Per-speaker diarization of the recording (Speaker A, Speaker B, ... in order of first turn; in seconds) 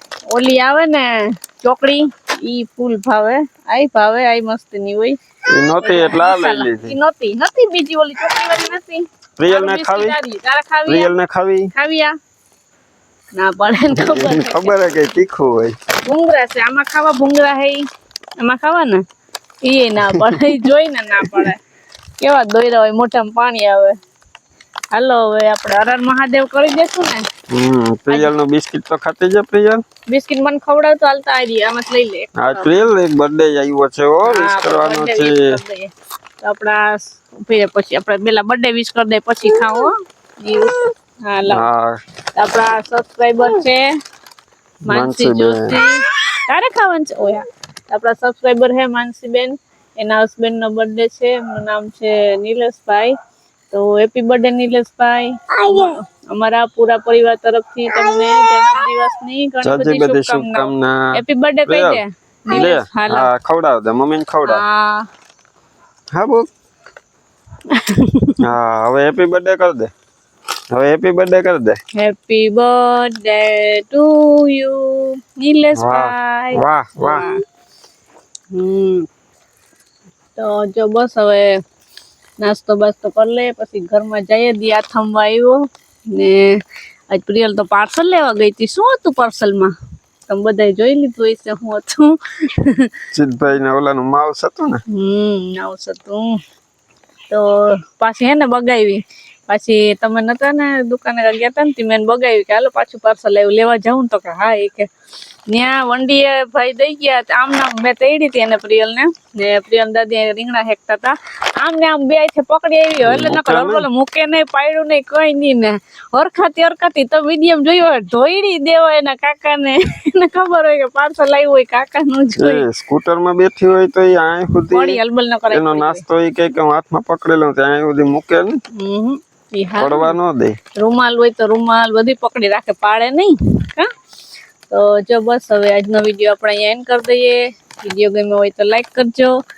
Speaker A: 0.3-5.2, 5.7-11.1, 11.7-12.2, 13.3-14.8, 16.0-17.9, 18.4-19.0, 19.6-21.6, 22.2-24.0, 24.9-27.2, 30.1-32.8, 34.2-41.6, 42.4-43.9, 44.9-53.1, 53.7-63.3, 64.5-65.1, 67.7-68.4, 72.0-77.4, 78.5-79.1, 80.4-81.5, 82.4-85.6, 86.1-86.6, 87.1-89.7, 90.3-92.9, 94.9-96.4, 97.3-104.9, 105.5-122.6, 124.7-126.0, 128.8-130.2, 130.8-133.9, 134.7-139.3
Speaker B: 5.5-7.0, 9.4-10.2, 10.9-11.7, 13.9-15.8, 20.2-20.4, 27.5-29.8, 32.4-35.5, 41.5-42.0, 44.9-45.8, 59.6-61.1, 61.7-64.6, 66.1-66.5, 68.4-69.9, 70.7-71.8, 75.8-77.3, 93.1-94.8, 113.0-113.9, 122.4-128.6, 129.8-130.6